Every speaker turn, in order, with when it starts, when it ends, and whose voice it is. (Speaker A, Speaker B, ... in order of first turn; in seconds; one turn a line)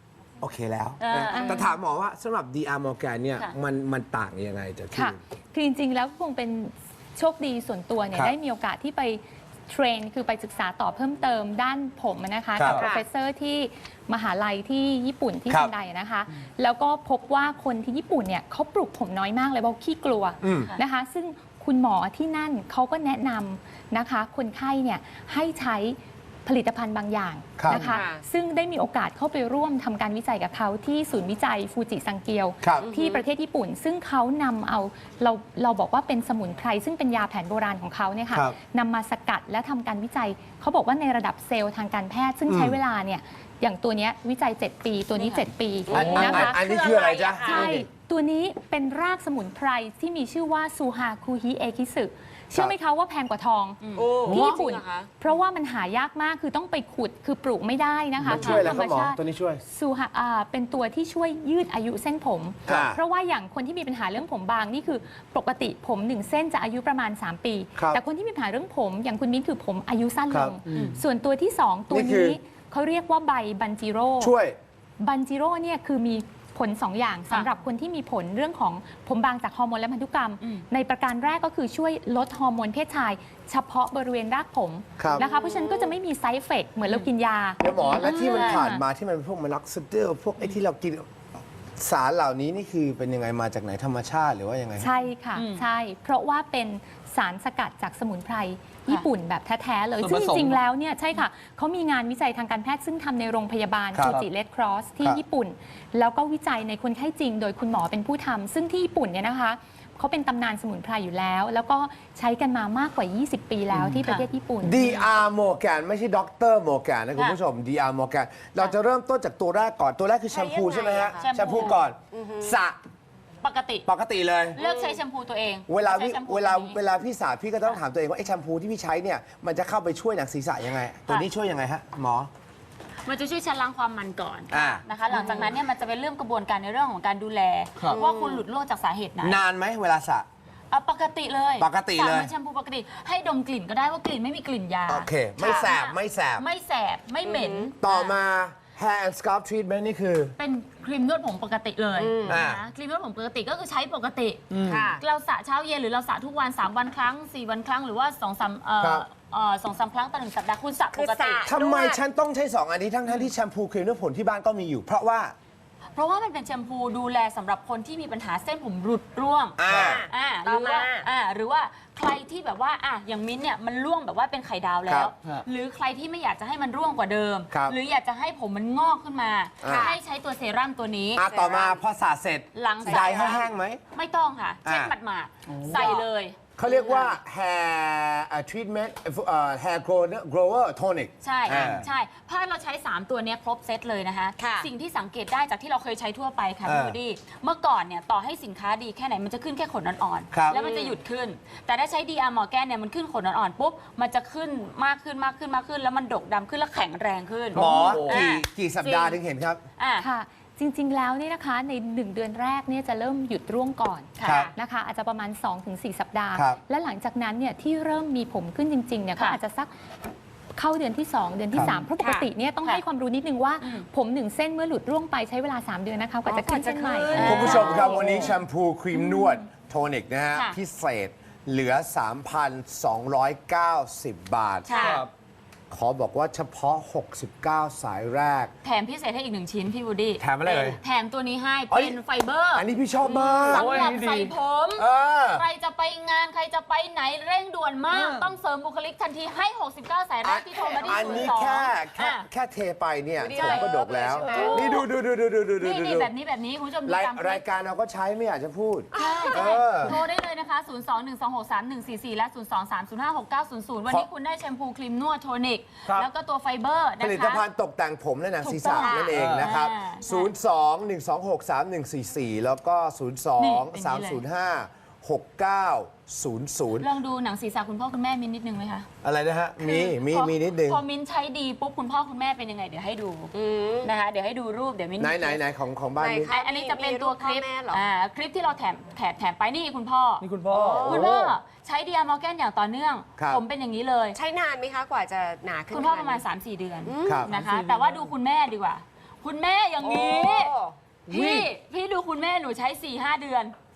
Speaker A: 0.4-5.2
Speaker B: 1.0-1.6
Speaker C: 1.3-1.7
Speaker C: 4.9-46.6
Speaker A: 12.6-12.8
Speaker D: 12.7-13.0
Speaker A: 20.4-20.7
Speaker A: 27.6-27.9
Speaker D: 27.7-28.2
Speaker A: 32.6-32.9
Speaker D: 32.8-33.2
Speaker A: 38.3-38.6
Speaker A: 42.5-42.8
Speaker B: 45.1-46.7
Speaker D: 45.9-47.8
Speaker A: 45.9-47.9
Speaker C: 47.4-74.3
Speaker B: 53.8-54.6
Speaker D: 54.0-55.1
Speaker A: 58.2-59.6
Speaker B: 58.3-58.8
Speaker A: 62.7-63.0
Speaker A: 67.7-68.0
Speaker A: 70.3-70.9
Speaker B: 70.7-71.0
Speaker A: 71.9-72.4
Speaker A: 74.2-74.6
Speaker C: 75.0-88.8
Speaker A: 85.0-85.2
Speaker D: 85.2-86.0
Speaker A: 87.6-91.1
Speaker B: 87.8-88.7
Speaker A: 91.8-94.9
Speaker C: 94.8-114.8
Speaker B: 95.3-95.6
Speaker E: 100.0-100.6
Speaker A: 103.9-104.2
Speaker A: 113.8-114.0
Speaker A: 114.6-122.8
Speaker D: 120.3-122.5
Speaker B: 121.2-121.8
Speaker B: 123.4-123.8
Speaker A: 123.8-124.6
Speaker B: 124.5-126.8
Speaker D: 124.6-125.0
Speaker A: 125.7-132.3
Speaker B: 133.0-139.4
Speaker A: 134.5-134.8
Speaker D: 135.1-135.5
Speaker D: 137.9-138.4
Speaker A: 139.2-140.3
Speaker B: 140.7-148.2
Speaker A: 141.6-142.3
Speaker A: 144.9-146.4
Speaker D: 145.4-145.7
Speaker D: 147.2-147.7
Speaker A: 147.8-150.3
Speaker B: 150.4-154.4
Speaker D: 151.9-152.4
Speaker A: 152.3-152.6
Speaker E: 154.5-154.9
Speaker D: 154.6-155.0
Speaker B: 155.0-161.5
Speaker A: 158.8-159.0
Speaker D: 160.9-162.0
Speaker A: 161.4-165.3
Speaker B: 165.9-181.2
Speaker A: 169.6-170.1
Speaker D: 169.7-171.1
Speaker A: 174.9-175.1
Speaker A: 177.5-177.8
Speaker A: 179.6-179.9
Speaker D: 179.6-180.0
Speaker A: 181.1-183.8
Speaker D: 181.2-181.8
Speaker B: 182.5-186.4
Speaker A: 184.6-184.9
Speaker E: 185.5-185.9
Speaker D: 185.7-186.0
Speaker A: 186.6-191.9
Speaker D: 186.6-187.2
Speaker B: 191.2-209.2
Speaker D: 194.4-194.7
Speaker A: 196.6-197.0
Speaker A: 200.3-200.6
Speaker D: 200.5-201.0
Speaker E: 207.5-208.2
Speaker A: 207.5-209.6
Speaker B: 209.8-210.1
Speaker C: 210.0-219.7
Speaker B: 214.2-214.5
Speaker A: 214.2-214.5
Speaker D: 214.2-214.5
Speaker A: 216.3-216.6
Speaker C: 220.5-227.7
Speaker A: 221.5-221.8
Speaker D: 222.0-222.3
Speaker B: 223.6-223.8
Speaker D: 226.2-228.2
Speaker B: 227.1-228.4
Speaker A: 227.2-234.7
Speaker E: 227.5-228.3
Speaker B: 228.9-229.3
Speaker B: 234.7-235.0
Speaker D: 234.7-235.0
Speaker E: 234.7-235.1
Speaker A: 235.7-238.5
Speaker B: 238.6-252.2
Speaker A: 240.2-240.8
Speaker A: 241.7-242.0
Speaker A: 242.5-243.9
Speaker E: 243.5-244.3
Speaker A: 244.8-245.4
Speaker E: 247.9-248.2
Speaker A: 250.2-256.1
Speaker D: 250.8-251.3
Speaker D: 253.2-254.8
Speaker B: 253.3-253.7
Speaker B: 254.3-254.8
Speaker B: 255.6-257.4
Speaker A: 256.8-260.0
Speaker D: 258.9-259.6
Speaker B: 258.9-267.4
Speaker A: 267.0-276.9
Speaker B: 268.4-270.3
Speaker D: 268.8-269.1
Speaker E: 269.1-269.5
Speaker B: 273.4-274.2
Speaker B: 276.8-278.9
Speaker A: 279.0-280.8
Speaker B: 279.6-285.4
Speaker D: 283.3-283.9
Speaker A: 285.0-286.3
Speaker D: 286.0-287.9
Speaker B: 286.3-290.3
Speaker E: 290.2-291.3
Speaker D: 290.5-291.2
Speaker B: 290.8-294.2
Speaker D: 294.1-296.2
Speaker B: 295.7-300.5
Speaker D: 296.8-297.3
Speaker A: 297.0-297.3
Speaker E: 297.3-298.1
Speaker D: 299.8-300.8
Speaker B: 301.1-303.5
Speaker E: 301.1-301.5